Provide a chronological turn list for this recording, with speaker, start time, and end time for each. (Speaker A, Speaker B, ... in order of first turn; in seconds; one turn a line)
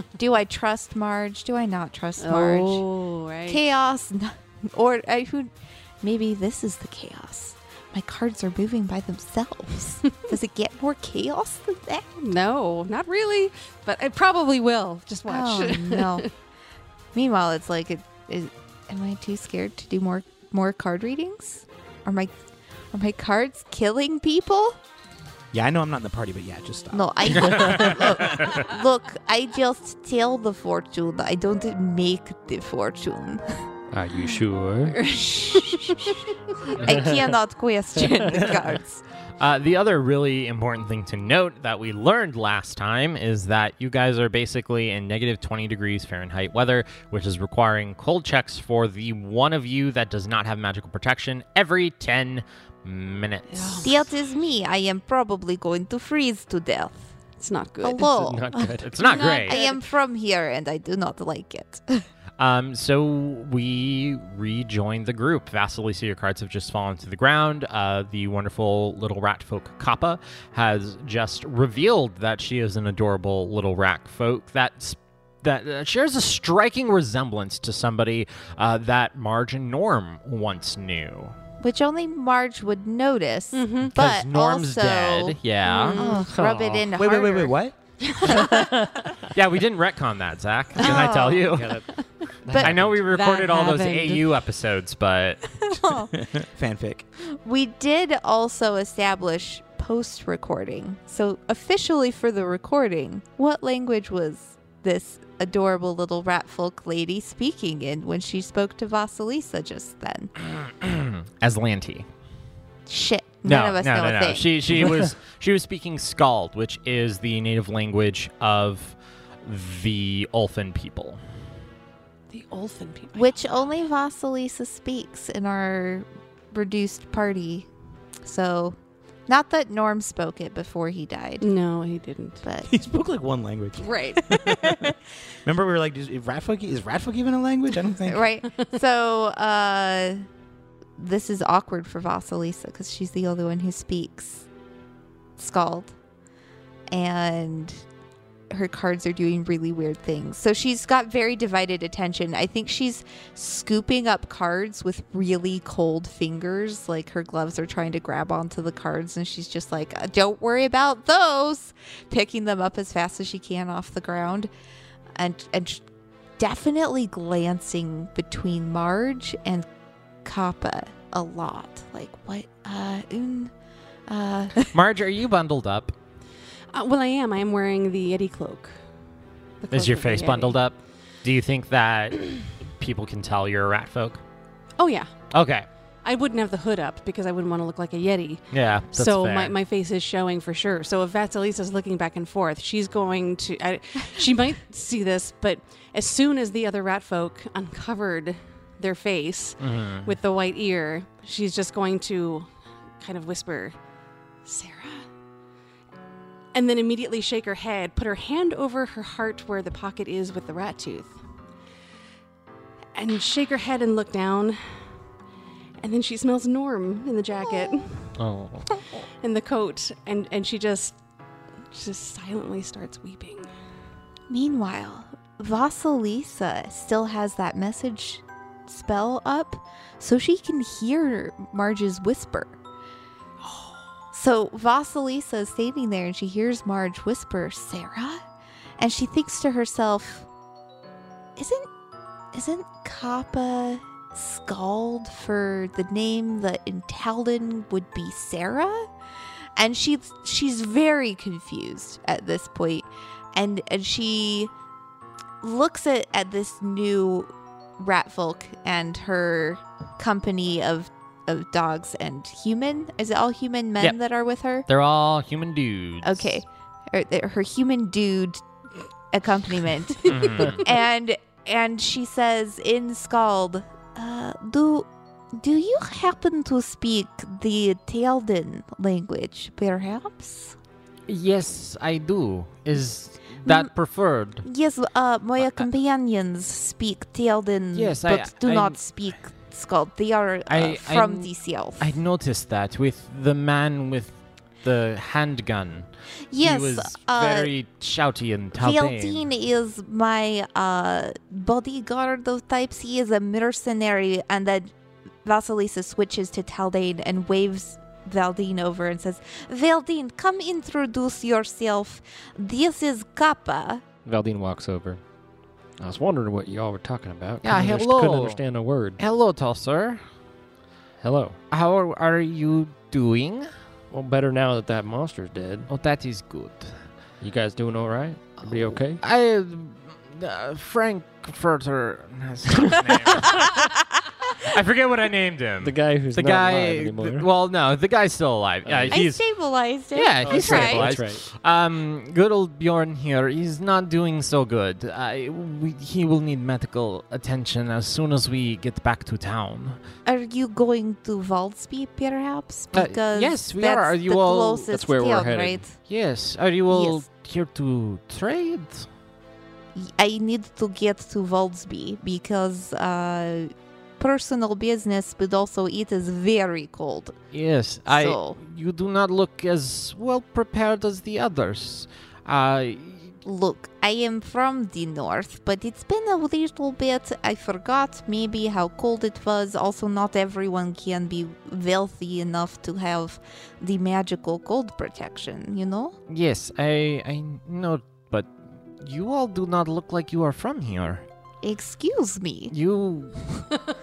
Speaker A: 0.1-2.8
Speaker B: 2.2-3.6
Speaker A: 3.5-12.1
Speaker B: 12.2-16.3
Speaker A: 15.2-16.3
Speaker A: 17.1-22.3
Speaker A: 22.9-24.8
Speaker C: 25.5-28.6
Speaker A: 26.9-33.4
Speaker D: 33.9-35.0
Speaker B: 35.0-36.1
Speaker A: 35.0-36.2
Speaker A: 36.8-39.0
Speaker D: 36.8-37.3
Speaker E: 39.4-54.0
Speaker B: 53.5-53.9
Speaker A: 53.8-57.1
Speaker B: 57.4-58.1
Speaker A: 57.8-62.1
Speaker D: 58.0-58.9
Speaker E: 58.8-59.6
Speaker B: 59.0-59.8
Speaker E: 62.4-81.4
Speaker A: 81.6-87.6
Speaker B: 83.5-83.9
Speaker E: 83.9-86.0
Speaker B: 85.7-86.3
Speaker D: 86.0-86.9
Speaker C: 87.0-87.8
Speaker B: 88.0-88.7
Speaker D: 88.5-89.0
Speaker E: 89.3-91.8
Speaker A: 90.8-91.5
Speaker D: 91.4-93.0
Speaker A: 92.5-92.8
Speaker E: 92.6-95.4
Speaker B: 93.1-94.3
Speaker A: 95.6-96.1
Speaker C: 96.2-97.1
Speaker A: 97.4-110.3
Speaker E: 110.4-112.1
Speaker A: 112.9-114.6
Speaker E: 113.4-121.2
Speaker B: 122.3-123.5
Speaker A: 123.1-127.7
Speaker A: 128.2-131.5
Speaker B: 131.4-132.4
Speaker A: 132.4-132.7
Speaker C: 132.6-134.9
Speaker A: 133.8-134.9
Speaker C: 135.4-138.2
Speaker A: 138.1-140.2
Speaker A: 141.0-144.5
Speaker A: 145.4-145.9
Speaker A: 146.9-147.8
Speaker A: 148.5-164.5
Speaker A: 165.2-165.8
Speaker A: 166.4-169.7
Speaker A: 170.2-173.5
Speaker A: 174.1-174.8
Speaker E: 174.7-175.9
Speaker B: 176.7-178.8
Speaker B: 179.6-180.6
Speaker E: 179.7-184.2
Speaker B: 184.8-185.1
Speaker E: 185.3-185.7
Speaker B: 186.0-202.5
Speaker E: 188.5-189.6
Speaker E: 199.6-200.1
Speaker B: 203.0-203.8
Speaker B: 204.4-205.1
Speaker B: 206.5-211.2
Speaker B: 212.9-214.6
Speaker B: 215.8-218.1
Speaker D: 218.2-218.7
Speaker B: 219.2-221.0
Speaker B: 221.7-223.5
Speaker A: 224.3-232.6
Speaker A: 234.1-238.2
Speaker A: 238.8-240.3
Speaker A: 241.4-241.7
Speaker A: 242.3-248.9
Speaker A: 249.6-254.5
Speaker A: 255.4-264.7
Speaker E: 264.6-266.4
Speaker A: 266.0-268.4
Speaker A: 269.1-280.6
Speaker E: 270.1-270.6
Speaker E: 281.1-284.4
Speaker A: 283.4-283.7
Speaker A: 284.4-291.9
Speaker E: 285.4-285.7
Speaker E: 287.7-288.8
Speaker E: 290.5-299.2
Speaker A: 296.3-297.5
Speaker A: 298.6-304.7
Speaker A: 305.2-313.8
Speaker D: 314.1-315.0
Speaker D: 315.8-319.0
Speaker E: 317.4-318.4
Speaker E: 319.0-320.0
Speaker D: 321.0-321.4
Speaker E: 321.5-323.5
Speaker D: 323.9-325.7
Speaker E: 325.7-326.8
Speaker D: 327.2-329.0
Speaker E: 328.4-333.6
Speaker E: 334.4-339.2
Speaker D: 335.6-337.3
Speaker D: 338.6-339.1
Speaker A: 338.9-340.9
Speaker E: 339.9-349.8
Speaker D: 340.2-341.2
Speaker A: 350.1-355.8
Speaker E: 352.7-354.7
Speaker D: 354.7-355.7
Speaker E: 355.8-358.9
Speaker A: 356.7-357.0
Speaker A: 359.7-367.2
Speaker E: 367.3-373.2
Speaker A: 367.9-368.4
Speaker A: 373.2-385.9
Speaker E: 386.1-391.1
Speaker A: 391.4-392.5
Speaker E: 392.5-393.2